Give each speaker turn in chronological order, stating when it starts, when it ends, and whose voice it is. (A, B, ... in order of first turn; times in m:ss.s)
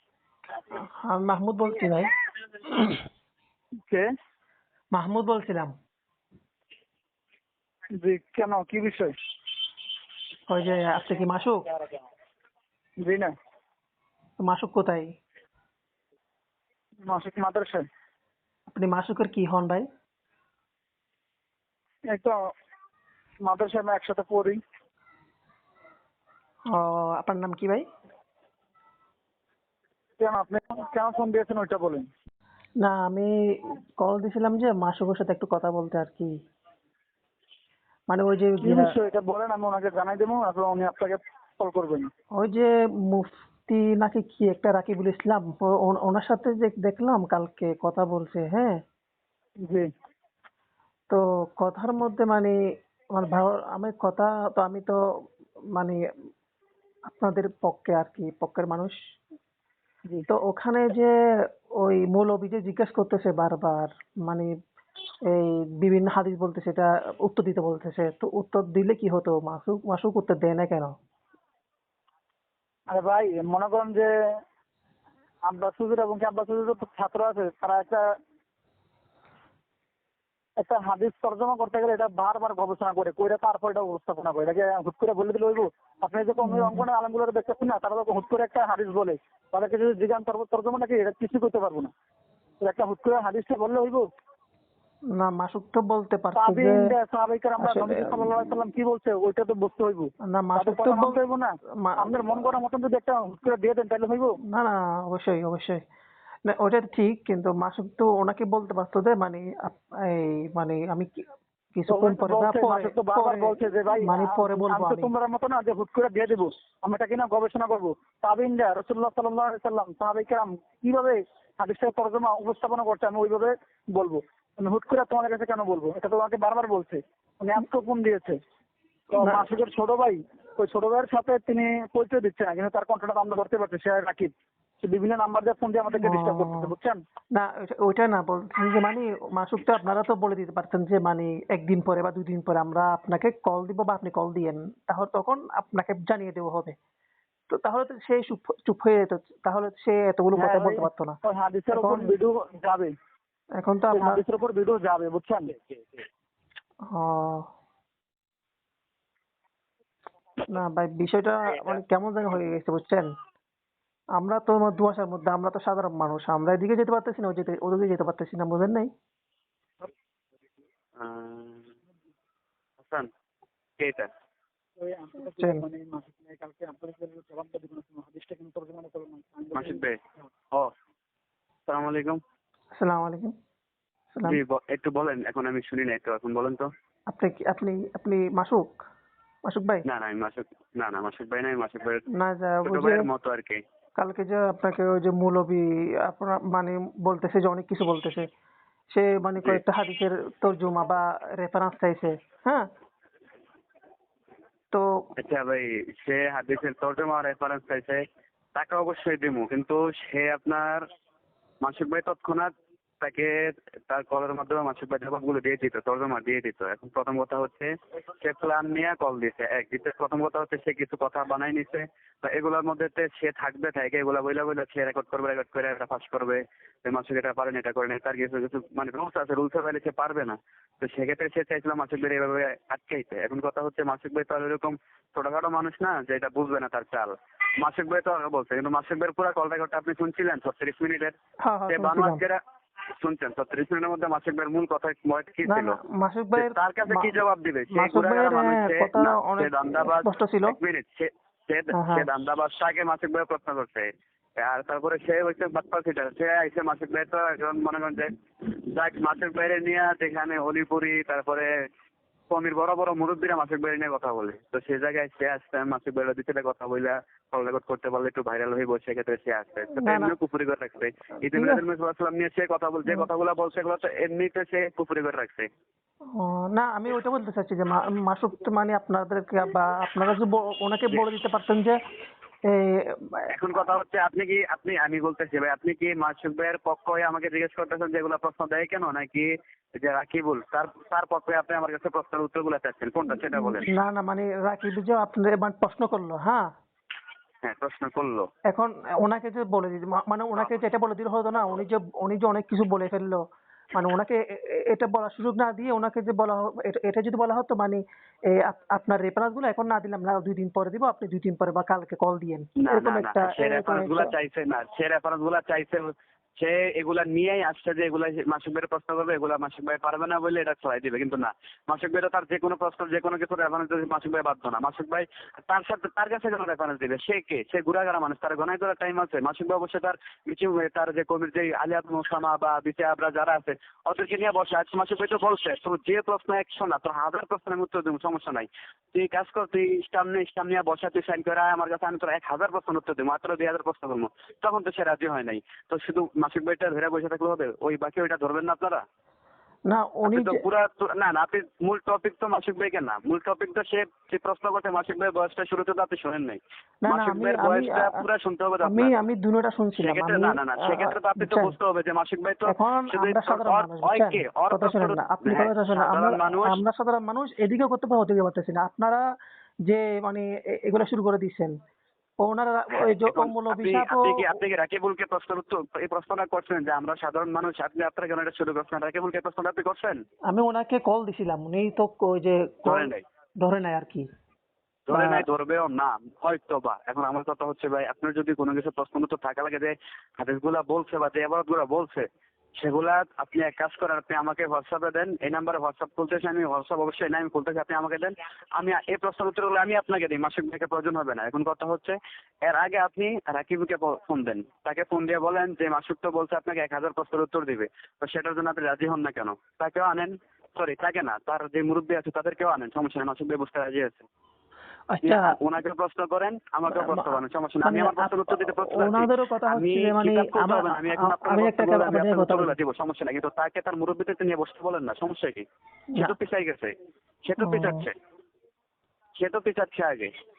0:00.7-0:02.1 A
0:02.7-0:03.0 A
0:04.9-0:05.7 A
0:08.0-0:09.1 B
0:10.5-0:11.7 A
0:13.0-0:13.3 B
0:14.4-0:15.1 A
0:17.1-0:17.8 B
0:18.7-0:19.9 A
0:22.1-0:22.4 B
0:23.4-0:24.6 B
0:26.7-0:27.9 A
0:30.2-0:32.1 B
0:32.8-0:36.3 A
0:38.1-0:39.0 A
0:38.6-0:42.1 B
0:42.4-0:48.8 A
0:51.1-0:52.6 A
0:53.1-0:55.0 A
0:55.7-0:56.0 A
0:57.1-0:59.0 A
1:00.3-1:01.1 A
1:01.8-1:04.5 A
1:05.3-1:10.9 A
1:12.9-1:14.1 B
1:15.4-1:18.1 B
1:20.6-1:31.9 B
1:26.4-1:26.8 A
1:32.6-1:34.1 B
1:35.2-1:36.9 A
1:36.4-1:44.4 B
1:37.6-1:38.3 A
1:40.3-1:41.2 A
1:41.8-1:42.4 A
1:44.5-1:45.8 A
1:46.5-1:55.1 A
1:51.9-2:08.4 B
2:09.1-2:14.3 B
2:09.2-2:09.5 A
2:14.8-2:17.0 B
2:15.9-2:16.7 A
2:17.4-2:26.8 A
2:27.5-2:31.2 A
2:30.4-2:32.9 B
2:31.7-2:32.2 A
2:33.6-2:34.2 A
2:34.0-2:36.0 B
2:36.9-2:37.5 A
2:40.4-2:43.1 A
2:44.2-2:48.9 A
2:51.0-2:51.8 C
2:52.8-2:53.1 C
2:53.8-2:54.1 C
2:54.8-2:59.8 B
2:55.4-2:55.6 A
2:59.6-3:00.0 C
3:01.7-3:02.2 C
3:02.8-3:03.3 A
3:04.1-3:04.4 A
3:04.2-3:06.7 C
3:07.1-3:08.8 A
3:09.5-3:09.9 A
3:09.8-3:12.1 C
3:12.1-3:13.1 A
3:12.6-3:13.6 C
3:14.0-3:18.3 A
3:18.9-3:22.7 A
3:24.7-3:25.1 A
3:25.2-3:28.0 C
3:28.6-3:30.8 C
3:31.6-4:01.1 C
4:01.5-4:02.2 A
4:01.7-4:02.4 C
4:03.0-4:05.8 C
4:05.5-4:07.2 A
4:06.4-4:21.5 C
4:07.7-4:10.6 A
4:11.7-4:12.1 A
4:22.3-4:35.5 C
4:29.8-4:30.1 A
4:31.3-4:31.6 A
4:36.2-4:41.8 A
4:42.5-4:43.3 A
4:43.3-4:53.7 C
4:53.3-4:56.4 A
4:57.4-4:58.3 C
4:58.5-5:03.2 A
5:03.7-5:14.1 A
5:12.6-5:48.8 C
5:49.7-5:50.4 A
5:50.1-5:59.0 C
5:56.8-5:58.0 A
5:58.6-6:01.6 A
5:59.8-6:06.6 C
6:02.5-6:09.0 A
6:09.7-6:11.6 A
6:12.2-6:14.3 A
6:12.8-6:20.0 C
6:20.3-6:24.1 A
6:22.7-6:23.0 C
6:24.9-6:32.1 C
6:24.9-6:25.2 A
6:32.6-6:54.1 C
6:54.9-6:55.3 A
6:55.0-7:05.5 C
6:56.7-7:02.6 A
7:06.0-7:06.7 C
7:07.2-7:08.0 C
7:07.4-7:07.9 A
7:09.2-7:10.1 C